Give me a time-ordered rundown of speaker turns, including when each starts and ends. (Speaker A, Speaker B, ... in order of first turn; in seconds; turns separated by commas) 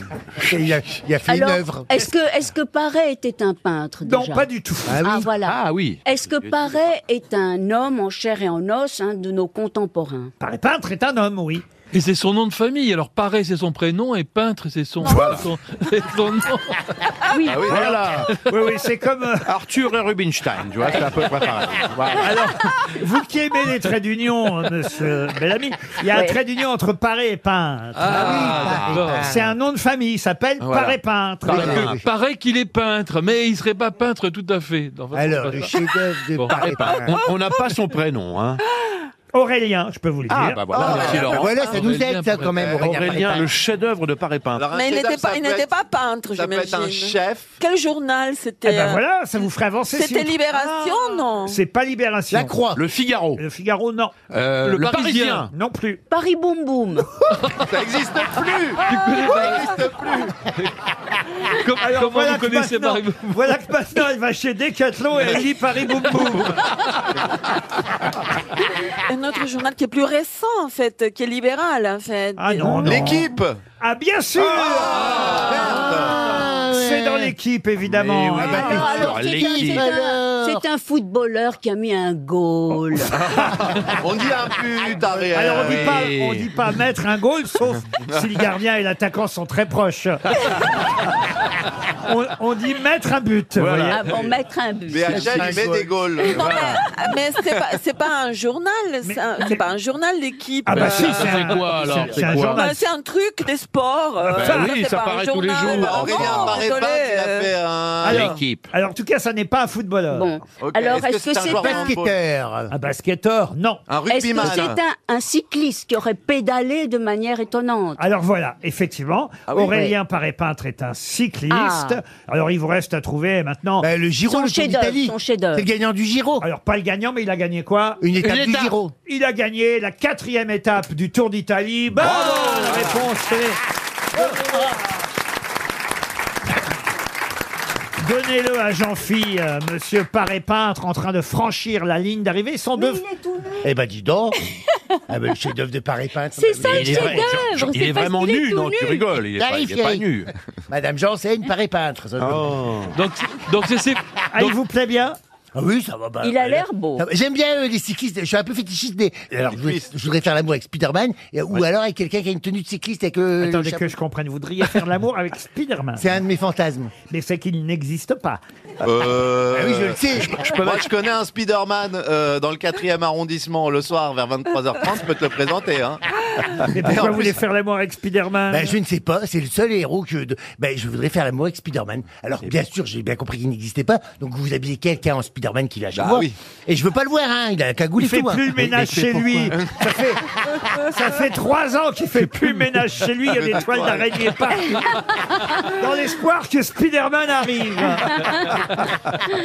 Speaker A: 0.4-1.9, Speaker B: 1.3-4.5, Speaker C: 4.0-5.0, Speaker A: 4.9-5.3, Speaker B: 5.0-10.3, Speaker D: 5.4-6.8, Speaker C: 10.4-11.7, Speaker E: 11.9-17.0, Speaker D: 15.1-15.4, Speaker B: 17.3-17.8, Speaker D: 17.5-18.3, Speaker F: 17.6-17.9, Speaker C: 17.7-19.5, Speaker D: 19.5-22.3, Speaker C: 22.2-28.6, Speaker B: 26.1-26.4, Speaker E: 28.0-29.3, Speaker A: 28.1-29.6, Speaker D: 28.3-29.2, Speaker C: 29.2-31.9, Speaker D: 30.6-32.0, Speaker A: 31.5-32.0, Speaker E: 31.6-35.8, Speaker A: 35.1-37.1, Speaker E: 36.3-36.6, Speaker D: 36.5-38.6, Speaker G: 37.0-37.8, Speaker G: 38.8-39.0, Speaker C: 39.3-41.0, Speaker D: 40.3-41.7, Speaker F: 40.7-41.6, Speaker A: 40.8-43.5, Speaker E: 41.3-42.7, Speaker F: 42.5-43.3, Speaker D: 42.8-44.6, Speaker F: 44.5-45.7, Speaker G: 44.7-49.0, Speaker F: 46.3-47.6, Speaker C: 48.6-52.6, Speaker G: 49.9-51.6, Speaker A: 52.3-52.8, Speaker D: 52.7-53.4, Speaker C: 53.4-54.2, Speaker D: 54.3-55.5, Speaker E: 54.6-55.5, Speaker C: 55.5-56.0, Speaker B: 56.1-57.1, Speaker F: 57.6-60.4, Speaker E: 58.8-59.8, Speaker E: 61.5-63.6, Speaker C: 61.8-66.7, Speaker G: 68.9-72.9, Speaker C: 72.4-73.3, Speaker F: 72.8-73.6, Speaker C: 73.8-75.4, Speaker F: 74.6-76.4, Speaker A: 75.3-77.3, Speaker C: 76.5-79.0, Speaker D: 77.8-79.9, Speaker A: 78.4-80.6, Speaker B: 78.4-83.2, Speaker F: 83.9-86.1, Speaker C: 85.3-90.4, Speaker D: 85.6-86.5, Speaker F: 87.9-88.2, Speaker C: 92.0-94.2, Speaker D: 93.6-94.0, Speaker B: 93.9-95.5, Speaker F: 94.9-96.7, Speaker A: 95.1-95.9, Speaker G: 96.2-107.5, Speaker D: 96.4-96.8, Speaker C: 99.0-99.6, Speaker C: 100.7-102.9, Speaker D: 100.7-102.7, Speaker C: 104.3-104.8, Speaker D: 104.3-106.6, Speaker F: 105.7-108.4, Speaker C: 108.0-110.3, Speaker D: 108.0-108.7, Speaker B: 110.1-111.9, Speaker F: 110.6-112.2, Speaker A: 111.5-112.7, Speaker C: 112.7-113.8, Speaker F: 113.9-114.8, Speaker B: 114.1-118.0, Speaker C: 118.0-123.9, Speaker F: 119.5-119.8, Speaker B: 119.7-119.9, Speaker B: 121.5-122.0, Speaker A: 123.8-126.5, Speaker B: 124.3-125.7, Speaker C: 126.4-128.1, Speaker A: 128.0-128.9, Speaker D: 128.2-128.8, Speaker C: 129.1-133.6, Speaker D: 132.0-133.0, Speaker C: 134.2-134.4, Speaker C: 138.0-143.0, Speaker B: 142.8-143.7, Speaker A: 143.6-144.4, Speaker A: 145.1-147.4, Speaker B: 146.4-149.1, Speaker D: 146.7-150.3, Speaker A: 149.4-150.1, Speaker A: 150.7-152.6, Speaker D: 152.2-152.9, Speaker E: 152.9-154.6, Speaker C: 154.3-155.2, Speaker A: 155.6-163.9, Speaker B: 156.2-157.1, Speaker F: 159.5-159.9, Speaker C: 163.4-166.1, Speaker A: 166.0-166.9, Speaker C: 167.1-168.4, Speaker F: 168.8-176.0, Speaker A: 169.5-170.6, Speaker D: 170.3-170.8, Speaker C: 176.6-178.8, Speaker F: 176.8-177.4, Speaker A: 178.5-188.7, Speaker F: 185.9-186.4, Speaker C: 188.0-190.2, Speaker D: 188.6-189.5, Speaker C: 190.8-195.0, Speaker D: 192.4-192.6, Speaker F: 193.3-194.1, Speaker C: 195.6-198.7